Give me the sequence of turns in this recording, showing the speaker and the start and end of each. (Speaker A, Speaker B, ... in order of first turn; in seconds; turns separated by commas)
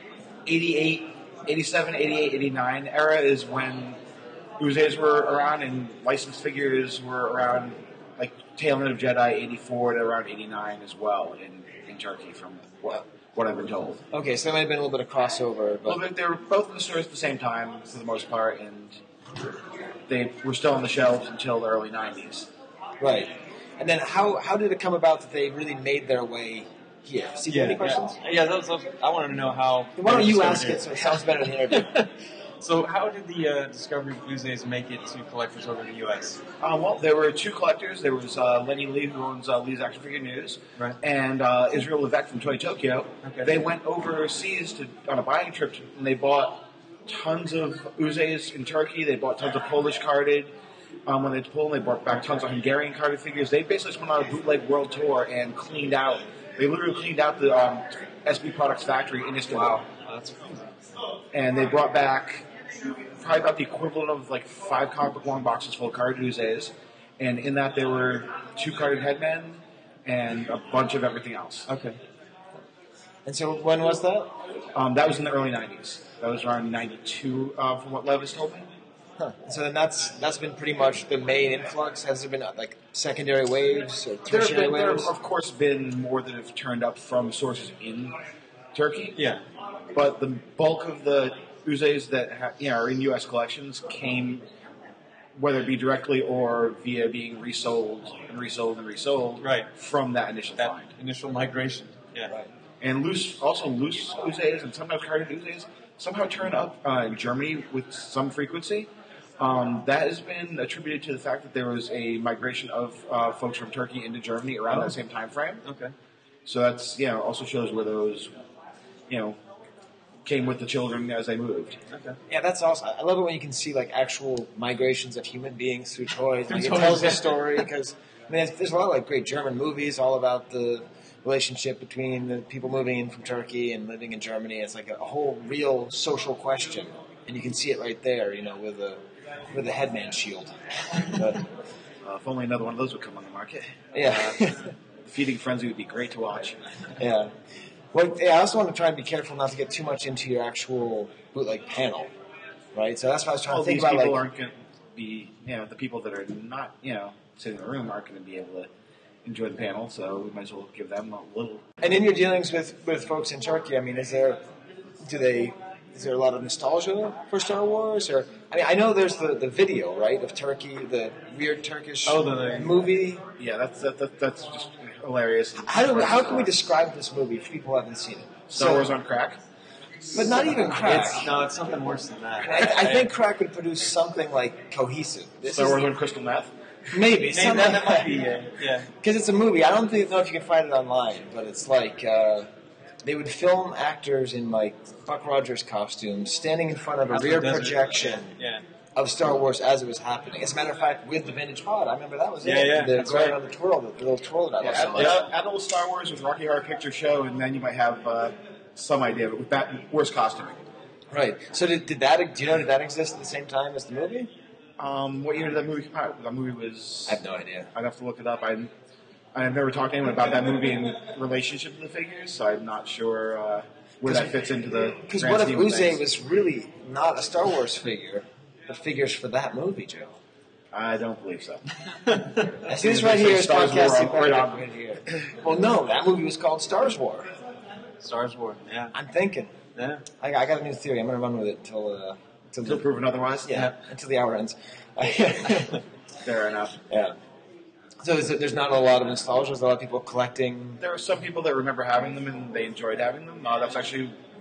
Speaker A: 0.5-4.0, Speaker A: 4.6-14.0, Speaker B: 14.1-16.0, Speaker A: 15.9-19.0, Speaker A: 20.1-22.5, Speaker B: 23.0-28.2, Speaker C: 27.5-32.1, Speaker B: 30.0-31.9, Speaker C: 32.6-36.4, Speaker A: 36.6-50.5, Speaker C: 43.2-43.6, Speaker A: 51.1-59.9, Speaker C: 59.5-60.6, Speaker A: 61.3-62.5, Speaker A: 63.2-71.7, Speaker C: 71.7-72.0, Speaker B: 73.3-74.3, Speaker A: 74.7-78.7, Speaker B: 79.2-85.1, Speaker A: 84.3-88.2, Speaker A: 88.7-89.2, Speaker C: 89.2-89.4, Speaker A: 89.9-94.5, Speaker A: 95.4-100.9, Speaker C: 99.4-99.7, Speaker C: 100.6-102.3, Speaker A: 102.8-115.6, Speaker C: 114.7-115.0, Speaker C: 115.6-115.9, Speaker A: 116.5-118.3, Speaker A: 119.1-119.4, Speaker A: 120.2-121.8, Speaker C: 121.9-122.2, Speaker B: 122.3-141.4, Speaker C: 126.5-127.6, Speaker A: 142.0-144.3, Speaker B: 143.9-144.7, Speaker A: 145.0-146.6, Speaker B: 147.0-147.3, Speaker B: 147.9-152.1, Speaker B: 152.8-154.2, Speaker A: 153.5-158.7, Speaker A: 159.2-161.7, Speaker B: 161.8-164.4, Speaker B: 165.0-173.2, Speaker C: 172.1-172.9, Speaker A: 173.4-176.6, Speaker B: 175.6-178.9, Speaker A: 178.5-179.4, Speaker A: 180.1-180.8, Speaker B: 180.1-181.3, Speaker C: 180.5-183.1, Speaker B: 182.4-185.9, Speaker A: 185.4-186.5, Speaker B: 186.9-188.1, Speaker C: 187.3-188.9, Speaker B: 189.0-192.5, Speaker B: 193.0-198.3, Speaker C: 197.1-198.6, Speaker B: 199.0-205.2, Speaker C: 202.4-203.4, Speaker A: 204.6-210.6, Speaker C: 204.9-205.3, Speaker B: 211.1-214.3, Speaker A: 214.8-217.2, Speaker B: 217.1-217.7, Speaker A: 217.7-218.7, Speaker A: 219.3-226.0, Speaker B: 224.0-224.3, Speaker B: 225.0-230.1, Speaker A: 230.7-231.6, Speaker C: 232.1-232.5, Speaker B: 232.7-237.3, Speaker A: 232.7-234.7, Speaker C: 238.0-238.9, Speaker B: 238.9-239.6, Speaker C: 239.8-240.0, Speaker B: 240.2-242.9, Speaker A: 242.6-243.6, Speaker B: 243.4-245.8, Speaker A: 246.2-246.8, Speaker B: 246.9-247.2, Speaker B: 248.0-250.8, Speaker A: 250.8-254.2